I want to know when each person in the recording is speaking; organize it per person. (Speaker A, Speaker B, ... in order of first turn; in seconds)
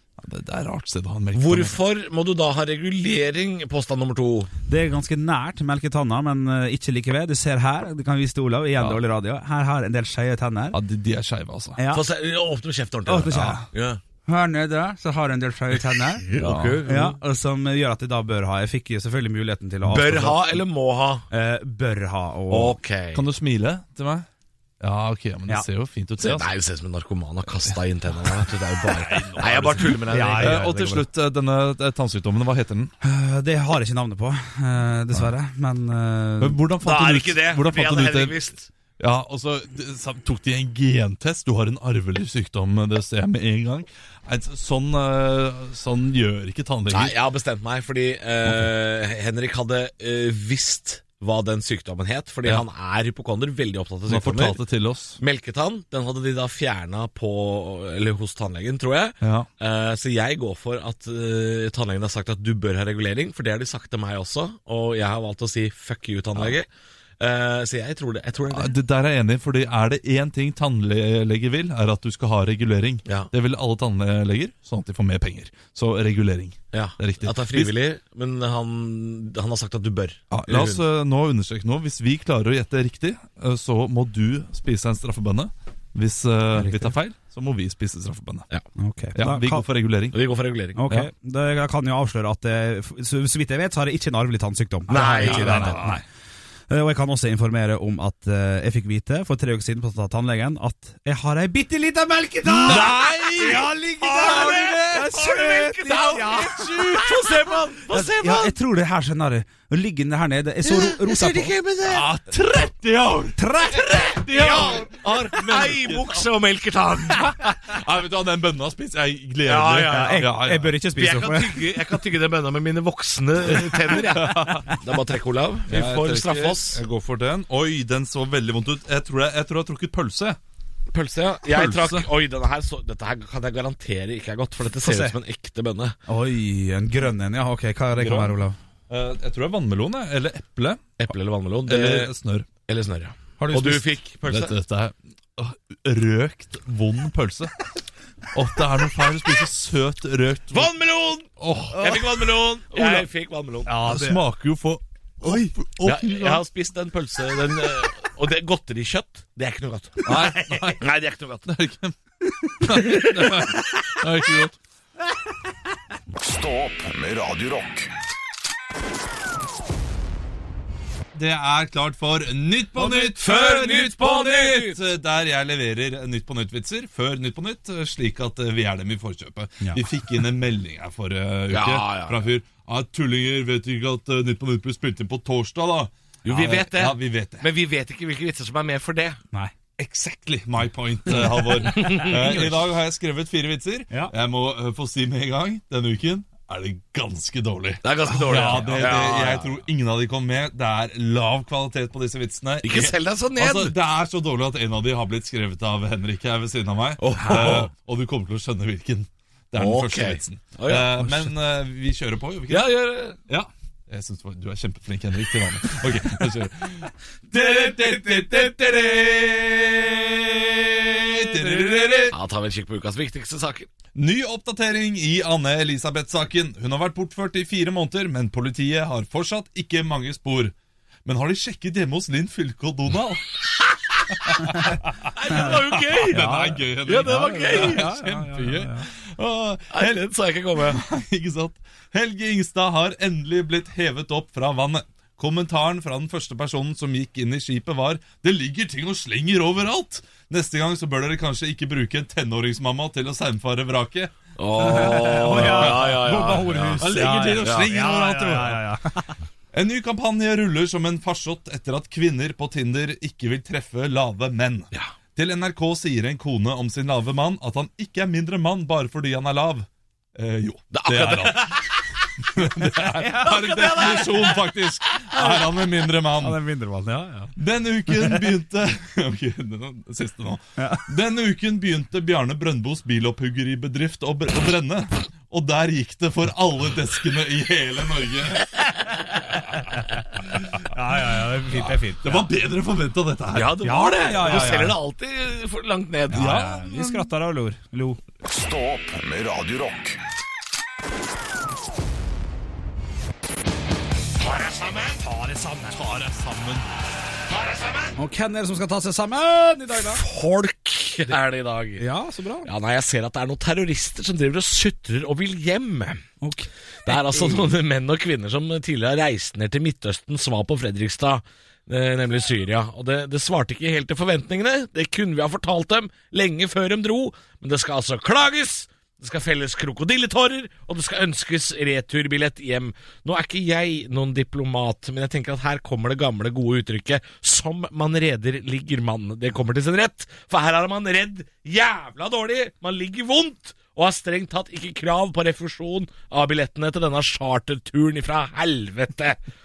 Speaker A: 0.2-1.8, 10.7-11.8, 16.4-16.8, 23.1-24.2, 24.8-26.5, 29.0-32.9, 36.4-38.4, 39.0-47.1, 54.1-55.2, 59.2-59.5, 68.5-77.7, 80.3-88.5, 89.1-90.2, 95.0-96.0, 102.5-105.2, 105.9-107.2, 111.8-116.3, 117.1-120.8, 124.2-124.5, 125.7-130.4, 131.5-132.1, 137.9-138.4, 138.9-140.8, 141.7-142.5, 144.2-147.5, 148.3-150.7, 151.4-152.0, 153.8-156.4, 160.0-160.8, 161.4-161.9, 162.5-164.6, 171.1-187.5, 189.8-212.7, 213.3-222.1, 223.9-230.5, 231.0-233.2, 234.2-258.7, 259.5-271.6, 272.2-276.4, 277.4-288.5, 291.5-293.6, 296.1-297.1, 305.7-306.8
Speaker B: 1.3-4.5, 11.9-14.0, 15.9-17.2, 19.8-21.2, 22.5-23.2, 26.2-30.8, 36.8-38.7, 46.9-54.6, 55.2-66.7, 67.2-68.7, 76.7-80.8, 90.1-90.9, 94.9-95.9, 102.6-108.5, 110.6-112.1, 113.8-117.6, 119.4-120.3, 120.9-126.8, 130.9-135.9, 141.0-142.1, 142.7-144.5, 150.5-153.8, 155.8-161.5, 162.9-163.9, 172.7-174.8, 181.5-182.2, 186.2-189.2, 191.6-192.5, 197.8-199.6, 202.6-203.7, 207.0-207.7, 209.6-211.2, 212.5-213.2, 222.0-223.7, 235.0-237.8, 239.7-240.8, 254.4-257.7, 270.7-271.8, 273.1-275.3, 293.3-296.3, 304.3-305.0, 307.3-307.9, 309.8-311.8, 312.4-316.0, 316.9-349.2
Speaker C: 4.7-10.8, 11.8-12.0, 13.1-13.7, 14.2-16.3, 16.8-20.6, 21.3-22.8, 29.8-31.0, 33.0-36.6, 86.5-86.9, 88.8-89.6, 90.8-96.0, 96.7-106.8, 107.9-111.5, 113.4-114.1, 119.8-121.8, 124.0-124.8, 134.8-135.2, 136.1-138.6, 143.4-143.9, 152.7-153.0, 153.7-154.2, 155.2-155.5, 191.7-192.1, 198.2-198.8, 236.1-238.9, 254.6-259.2, 272.9-273.6, 276.1-277.3, 280.6-280.9, 290.7-292.3, 293.6-294.8, 296.1-298.0, 305.0-305.8, 307.9-310.0, 311.8-312.5, 316.2-317.4
Speaker D: 166.2-167.9, 298.2-300.0